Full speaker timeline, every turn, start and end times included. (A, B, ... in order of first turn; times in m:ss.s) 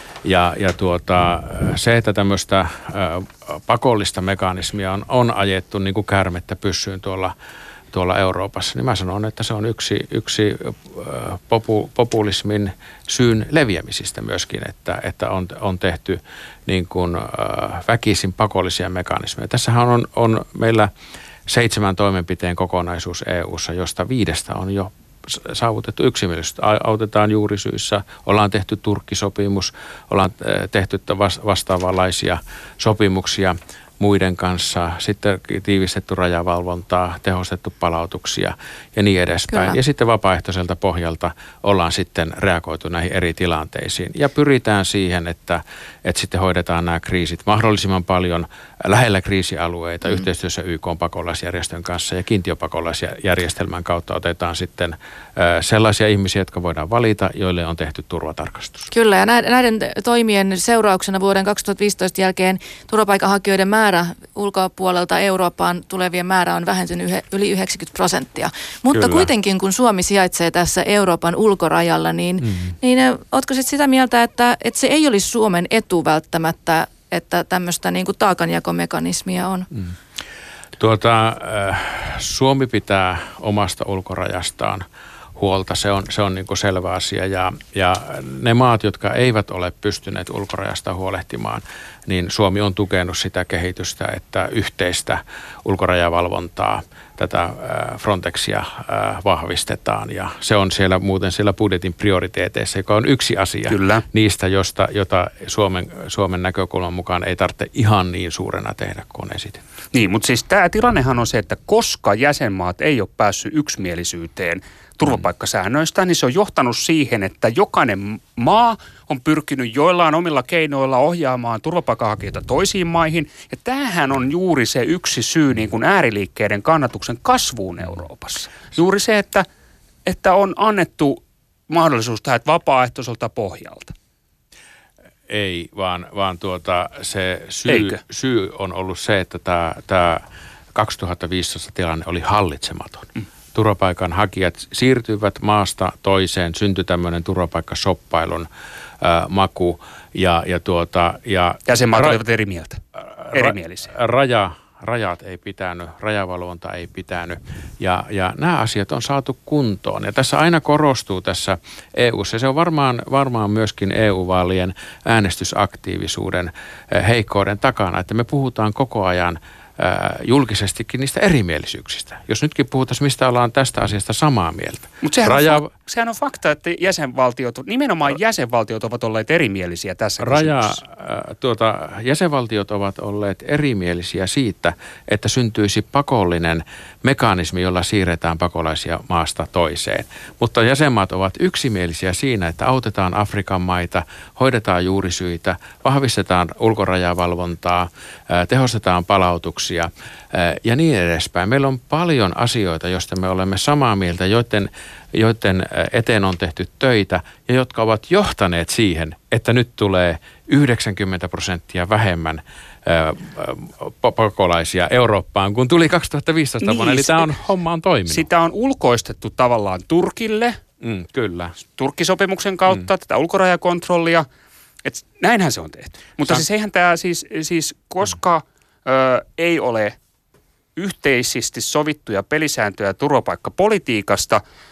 0:00.2-0:07.3 A
0:07.9-0:20.9 A
0:21.5-0:58.9 A
0:39.5-0:39.8 B
0:58.9-1:19.7 B
1:08.9-1:09.3 A
1:12.4-1:12.7 A
1:20.8-1:24.8 A
1:25.4-1:49.6 A
1:43.7-1:44.0 C
1:49.9-2:09.4 C
2:10.0-2:13.9 C
2:15.3-2:28.5 A
2:17.7-2:18.0 C
2:29.0-2:32.2 A
2:31.7-2:32.8 C
2:33.0-2:55.7 A
2:33.3-2:33.9 C
2:55.0-3:00.8 C
3:00.2-3:38.3 A
3:36.6-3:37.3 C
3:38.1-3:40.6 C
3:40.8-3:41.6 A
3:41.7-3:44.2 C
3:44.8-3:50.0 C
3:50.8-3:54.4 C